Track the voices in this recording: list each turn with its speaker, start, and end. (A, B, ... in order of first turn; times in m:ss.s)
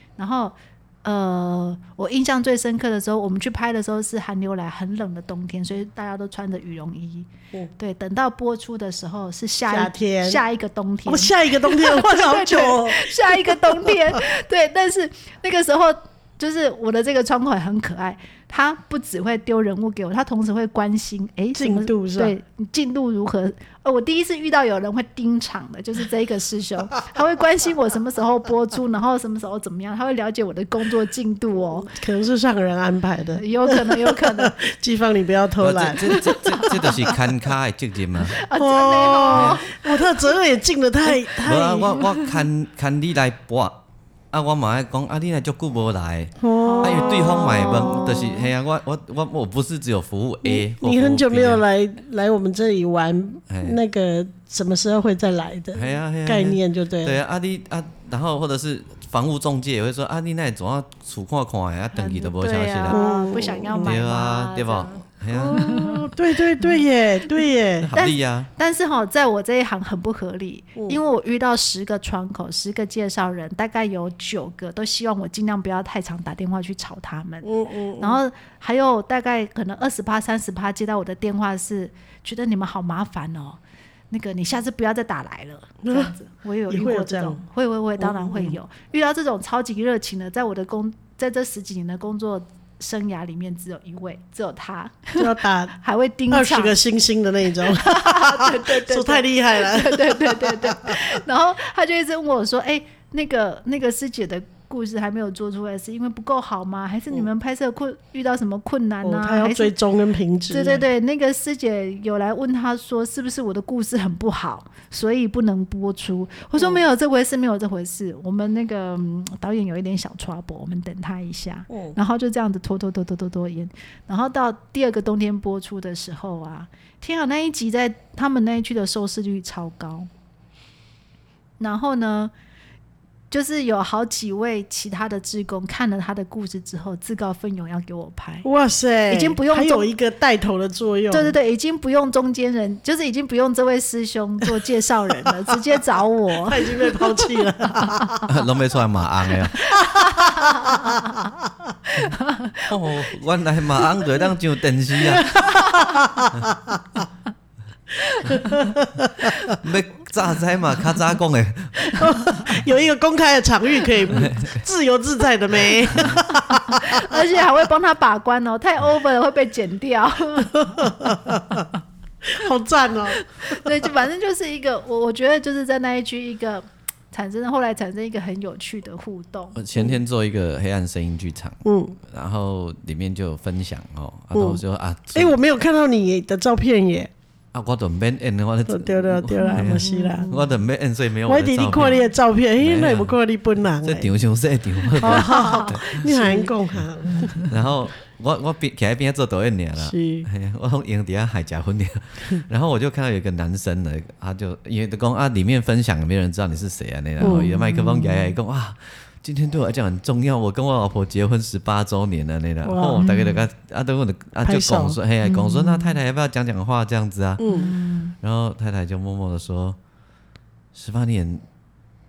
0:00.2-0:31.9 A
0:09.7-0:10.4 B
0:11.0-0:14.2 B
0:21.6-0:22.3 B
0:31.8-0:36.8 B
0:33.4-0:34.6 A
0:35.6-0:38.4 C
0:36.1-0:37.0 A
0:38.3-0:40.3 A
0:38.5-0:42.1 B
0:39.3-0:39.6 C
0:41.4-0:51.6 C
0:46.4-0:48.2 B
0:46.6-0:48.5 A
0:50.4-0:57.2 B
0:53.5-0:53.8 C
0:55.7-1:03.1 C
1:01.9-1:06.1 A
1:02.9-1:03.9 B
1:03.8-1:05.8 C
1:05.3-1:07.9 B
1:07.8-1:08.5 C
1:07.9-1:36.8 A
1:17.4-1:18.2 B
1:25.8-1:26.1 B
1:26.7-1:27.4 B
1:28.0-1:28.6 B
1:35.2-1:35.8 B
1:36.3-1:41.0 B
1:37.6-1:49.7 A
1:49.0-1:50.8 B
1:50.5-2:10.1 A
2:01.7-2:02.0 B
2:11.6-2:12.3 A
2:13.3-2:18.5 A
2:18.4-2:21.4 B
2:19.1-2:19.9 A
2:21.1-2:28.2 A
2:26.4-2:28.3 B
2:28.3-2:29.6 C
2:29.6-2:31.3 A
2:29.8-2:31.3 B
2:31.9-2:32.7 A
2:32.7-2:35.4 C
2:35.0-2:37.0 B
2:35.3-2:36.0 A
2:38.0-2:38.5 A
2:38.2-2:39.5 B
2:39.6-2:41.9 C
2:41.9-2:47.3 B
2:44.1-2:44.6 C
2:46.3-2:51.6 A
2:50.6-2:51.7 B
2:52.2-2:53.9 B
2:53.2-2:59.6 A
2:59.5-3:05.4 C
3:01.6-3:02.0 B
3:04.3-3:04.6 B
3:05.1-3:07.1 B
3:07.5-3:12.0 C
3:08.7-3:10.3 B
3:09.4-3:10.5 A
3:11.3-3:14.1 B
3:12.6-3:13.2 C
3:13.8-3:16.2 C
3:15.0-3:17.5 B
3:15.0-3:16.5 A
3:17.4-3:37.4 C
3:19.8-3:20.3 B
3:27.2-3:27.6 B
3:27.2-3:28.3 A
3:32.6-3:33.1 B
3:33.0-3:33.4 A
3:34.4-3:35.0 B
3:35.2-3:35.9 A
3:37.4-3:37.7 B
3:37.4-3:38.1 A
3:38.2-3:39.8 C
3:40.7-3:41.4 C